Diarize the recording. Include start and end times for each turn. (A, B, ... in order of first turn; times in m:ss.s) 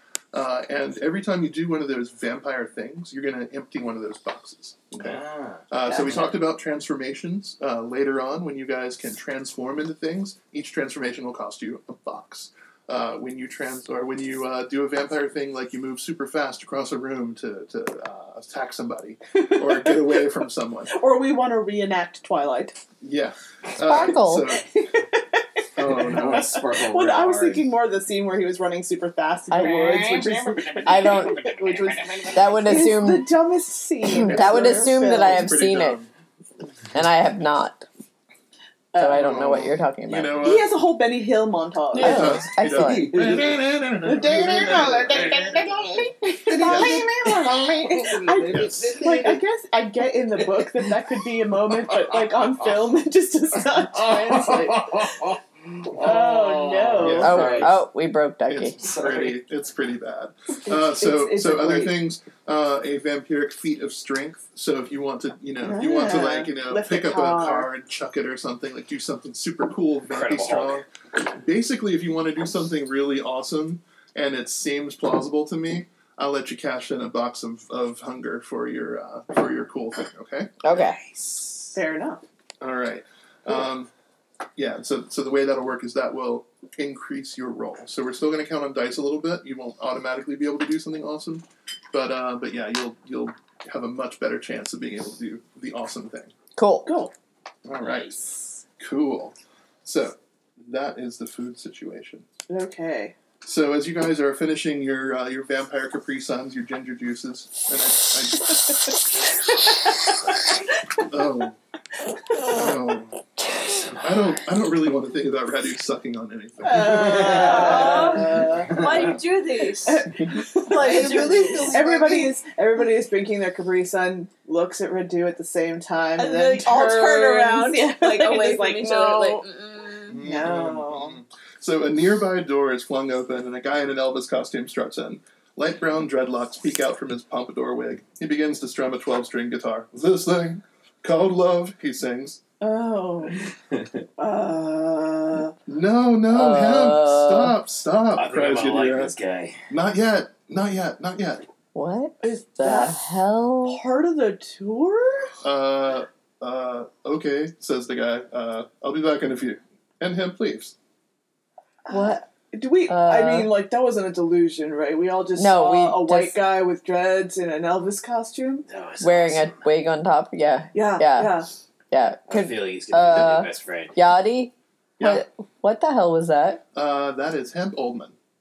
0:00.3-0:20.9 A
0:05.0-0:05.6 B
0:05.9-0:06.4 C
0:19.4-0:20.3 C
0:20.9-0:22.8 C
0:23.0-0:24.6 A
0:23.8-0:24.6 D
0:24.8-0:35.5 C
0:25.8-0:26.6 A
0:25.8-0:27.7 B
0:29.5-0:32.7 B
0:30.8-0:31.5 D
0:32.3-0:33.3 D
0:34.1-0:36.0 D
0:34.2-0:36.1 A
0:36.9-0:37.8 D
0:38.9-0:39.2 C
0:39.0-0:40.4 D
0:39.1-0:40.8 A
0:40.4-0:42.4 C
0:41.9-0:43.2 D
0:42.0-0:45.4 A
0:42.6-0:43.7 B
0:44.0-0:55.2 C
0:44.4-0:45.8 B
0:46.5-0:49.4 B
0:46.6-0:47.6 A
0:48.5-0:48.9 A
0:50.4-0:51.0 B
0:51.9-0:52.6 B
0:54.0-0:57.8 B
0:56.0-0:57.5 C
0:57.0-0:57.8 A
0:57.2-0:58.8 D
0:58.5-1:20.5 A
0:58.8-0:59.4 B
1:00.7-1:02.0 C
1:05.6-1:07.7 C
1:10.1-1:10.9 B
1:20.6-1:21.0 D
1:20.7-1:21.8 B
1:21.8-1:22.2 C
1:22.6-1:23.9 A
1:24.6-1:36.3 A
1:36.6-1:37.0 D
1:36.9-1:37.1 C
1:37.6-1:38.2 A
1:38.8-1:42.3 A
1:42.5-1:43.2 C
1:43.4-1:48.8 A
1:51.0-1:51.6 A
1:52.3-1:52.6 C
1:52.4-1:53.2 A
1:53.8-1:57.4 A
1:56.6-1:59.0 C
1:57.1-1:59.1 B
1:57.2-2:02.3 E
1:59.8-2:09.5 C
2:06.2-2:10.2 E
2:10.1-2:22.4 A
2:10.2-2:11.2 C
2:22.6-2:23.5 C
2:24.2-2:25.6 C
2:25.7-2:29.2 A
2:26.3-2:27.6 D
2:28.2-2:29.6 B
2:29.7-2:31.4 A
2:31.8-2:33.8 D
2:32.2-2:33.1 C
2:33.6-2:35.3 C
2:35.4-2:40.7 A
2:41.9-2:48.7 C
2:42.9-2:43.5 D
2:45.4-2:46.4 D
2:48.7-2:49.6 B
2:49.0-2:56.6 D
2:50.7-2:51.5 C
2:52.3-2:54.0 B
2:55.0-2:55.2 A
2:56.8-2:58.2 A